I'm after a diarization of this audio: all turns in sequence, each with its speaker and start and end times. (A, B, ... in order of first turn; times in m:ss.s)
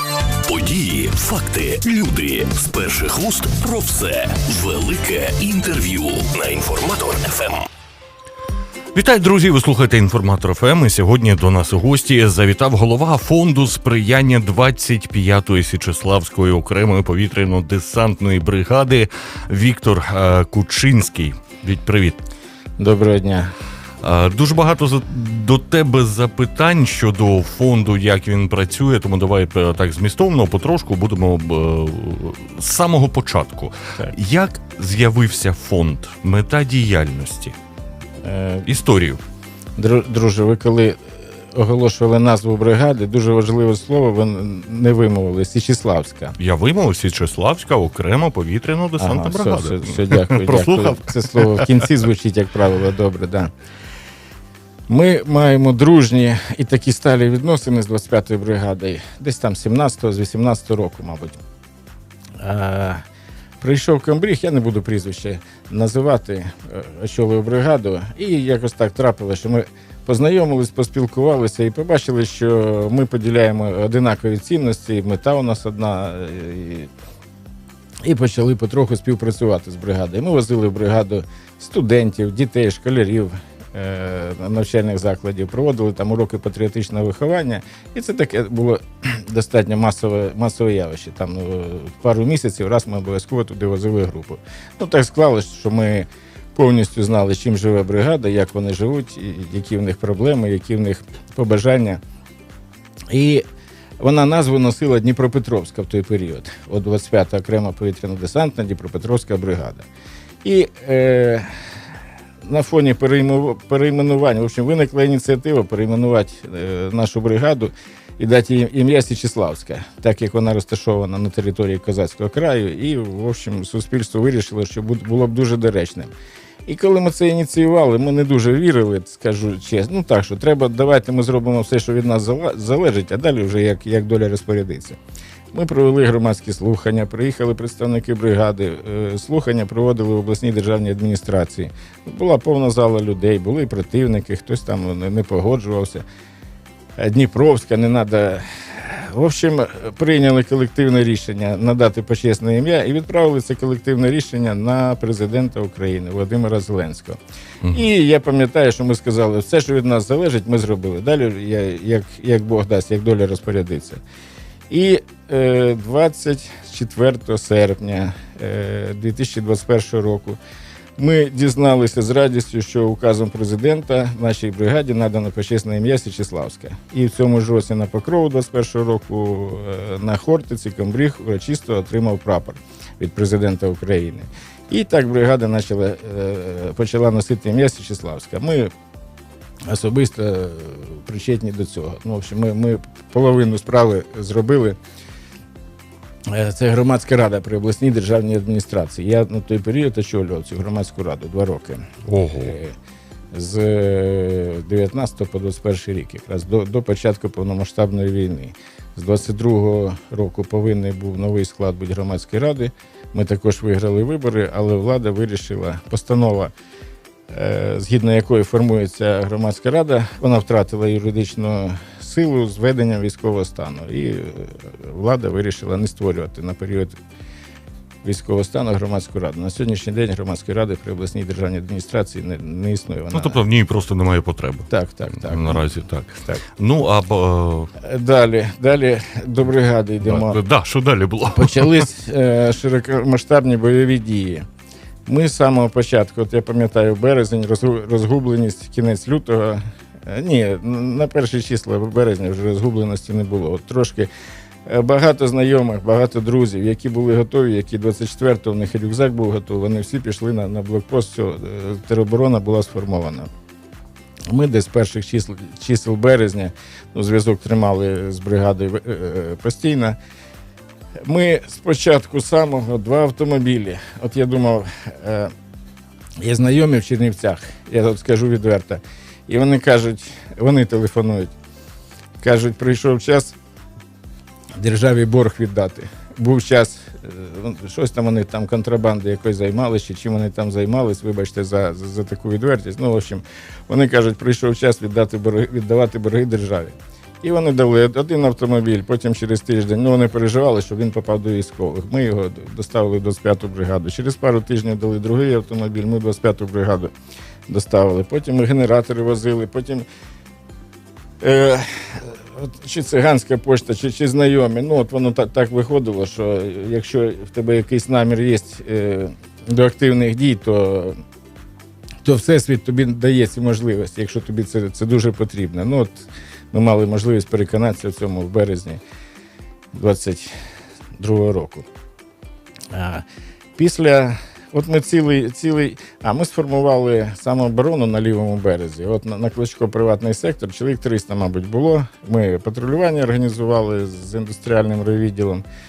0:00.5-0:07.7 A
0:08.9-0:22.2 B
0:22.8-0:23.5 C
0:24.0-0:37.6 B
0:38.2-0:38.7 C
0:38.6-0:39.2 B
0:39.8-0:46.4 C
0:46.4-0:51.8 B
0:49.0-0:53.5 C
0:54.9-1:01.4 C
1:02.4-1:03.0 C
1:03.6-1:16.9 C
1:18.0-1:42.0 C
1:43.1-1:43.4 C
1:44.0-1:49.9 C
1:50.4-1:51.5 C
1:52.4-2:06.1 C
2:06.6-2:15.0 C
2:15.5-2:26.0 C
2:27.0-2:37.2 C
2:37.7-2:44.0 C
2:44.7-2:50.4 C
2:51.0-3:08.7 C
3:09.7-3:14.8 C
3:16.3-3:21.9 C
3:22.0-3:22.5 B
3:22.4-3:22.7 C
3:23.3-3:36.5 C
3:37.3-3:47.0 C
3:48.0-3:53.4 C
3:53.1-3:57.7 B
3:54.7-3:55.6 C
3:57.8-4:00.4 C
4:00.0-4:01.9 B
4:01.3-4:04.4 C
4:05.0-4:14.1 C
4:14.6-4:23.3 C
4:24.3-4:30.0 C
4:31.0-4:35.3 C
4:36.2-4:41.3 C
4:42.2-4:43.4 C
4:44.6-5:06.9 C
5:07.5-5:09.8 C
5:11.2-5:21.0 C
5:22.0-5:28.8 C
5:29.7-5:30.3 C
5:31.0-5:31.7 C
5:32.7-5:33.0 C
5:33.6-5:45.4 C